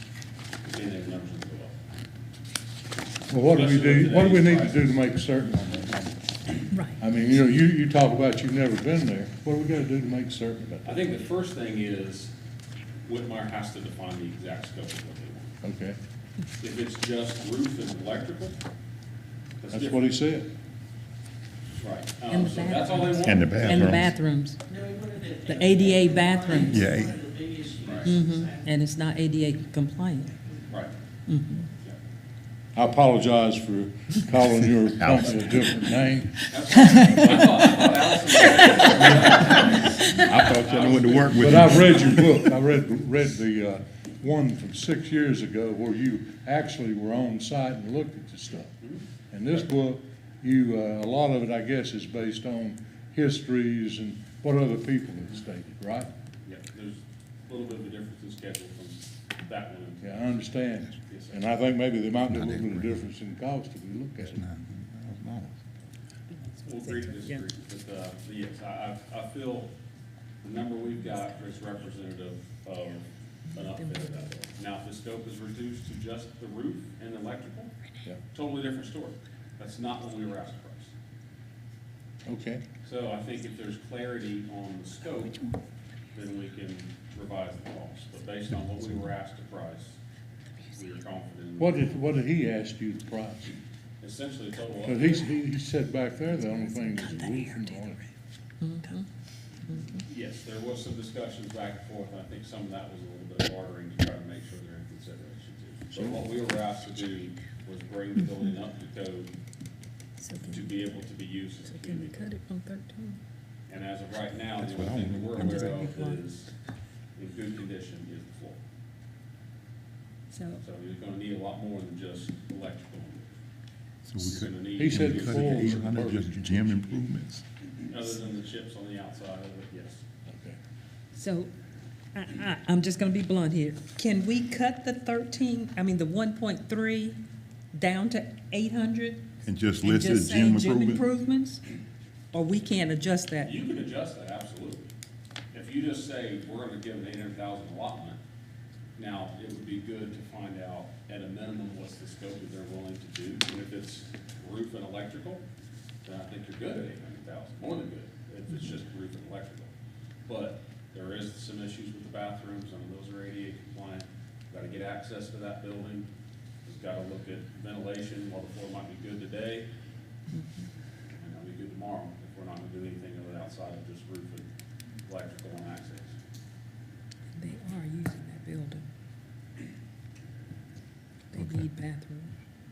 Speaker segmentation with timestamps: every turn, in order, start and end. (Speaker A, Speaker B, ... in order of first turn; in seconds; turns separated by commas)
Speaker A: 0.7-1.8, Speaker B: 3.3-11.2, Speaker A: 3.5-4.9, Speaker C: 6.7-7.0, Speaker A: 10.8-12.3, Speaker A: 13.0-15.6, Speaker B: 15.6-16.0, Speaker A: 16.6-18.6, Speaker A: 19.6-20.1, Speaker B: 19.7-20.5, Speaker A: 21.8-24.0, Speaker C: 22.3-24.6, Speaker D: 23.2-24.1, Speaker E: 24.7-28.7, Speaker C: 25.4-26.8, Speaker D: 26.6-27.1, Speaker A: 27.8-28.1, Speaker C: 28.0-30.3, Speaker A: 30.7-30.9, Speaker C: 31.3-31.7, Speaker B: 32.7-36.9, Speaker D: 34.9-35.9, Speaker A: 36.5-42.2, Speaker D: 40.1-42.4, Speaker B: 41.3-48.7, Speaker A: 48.8-49.6, Speaker B: 49.3-56.1, Speaker A: 56.4-60.4, Speaker B: 60.0-64.5, Speaker A: 61.0-61.5, Speaker D: 62.3-63.0, Speaker D: 64.2-65.7, Speaker A: 66.6-69.7, Speaker A: 70.4-77.7, Speaker C: 73.6-74.2, Speaker A: 78.3-80.9, Speaker B: 82.2-82.6, Speaker A: 82.8-85.5, Speaker A: 86.1-90.0, Speaker A: 90.7-92.0, Speaker B: 91.6-93.5, Speaker A: 94.0-95.3, Speaker B: 94.8-98.0, Speaker C: 98.6-99.0, Speaker C: 99.7-100.0, Speaker A: 100.1-109.3, Speaker C: 110.2-110.7, Speaker A: 110.5-112.2, Speaker C: 111.7-113.2, Speaker A: 113.7-116.5, Speaker D: 114.6-115.8, Speaker C: 115.3-116.2, Speaker A: 117.2-118.6, Speaker C: 120.3-120.6, Speaker A: 120.6-123.3, Speaker D: 124.0-127.4, Speaker A: 124.2-125.8, Speaker B: 124.8-126.7, Speaker A: 127.8-130.0, Speaker B: 130.2-130.6, Speaker C: 131.1-131.5, Speaker C: 132.1-137.2, Speaker C: 137.7-139.2, Speaker D: 139.4-141.0, Speaker C: 139.8-141.6, Speaker C: 142.3-143.5, Speaker A: 143.4-144.9, Speaker A: 145.5-148.2, Speaker A: 149.0-155.4, Speaker A: 156.0-159.7, Speaker A: 160.3-166.1, Speaker A: 166.6-169.7, Speaker C: 170.3-170.7, Speaker A: 171.1-174.4, Speaker A: 175.0-176.2, Speaker C: 177.3-178.9, Speaker C: 181.3-182.3, Speaker D: 181.3-181.7